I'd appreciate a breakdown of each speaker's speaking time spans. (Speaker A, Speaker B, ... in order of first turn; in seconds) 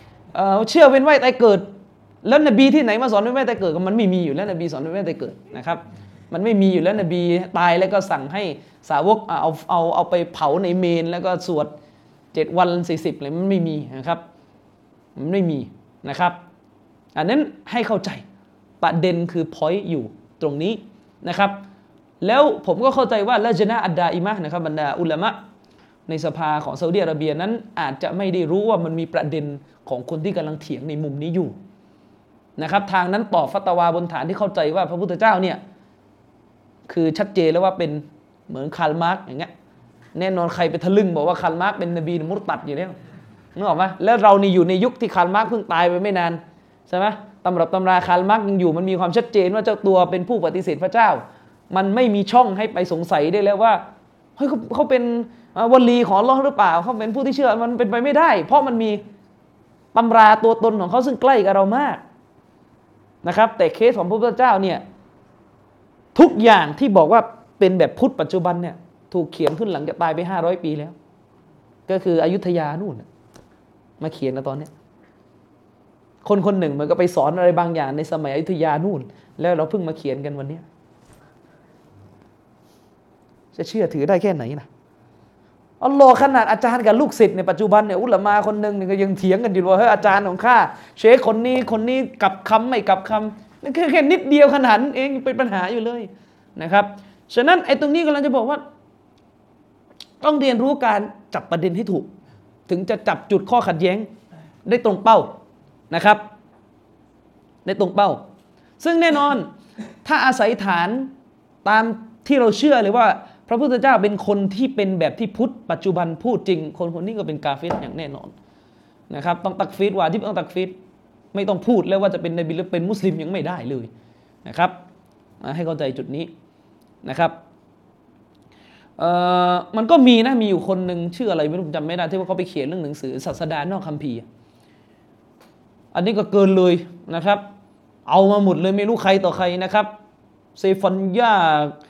Speaker A: 0.3-1.7, 2.2-11.7, 12.3-14.2, 15.2-16.4, 17.1-18.2, 18.8-21.6, 22.2-25.4, 26.1-31.6, 32.6-35.6, 36.9-39.5, 40.1-43.0, 43.6-53.8, 54.4-59.0, 59.9-62.0, 63.2-64.8, 66.2-71.0, 71.9-73.1, 74.0-74.7, 76.2-80.6, 83.5-84.7, 85.8-98.6, 100.2-102.1, 102.7-104.1, 104.7-105.3, 105.9-106.2, 107.7-108.2, 108.8-109.5, 110.0-111.1, 111.7-118.3, 119.1-120.8, 121.3-123.9, 124.5-124.7, 125.4-126.3, 127.0-127.4, 129.0-134.2, 135.9-137.4, 138.1-139.9, 140.6-141.8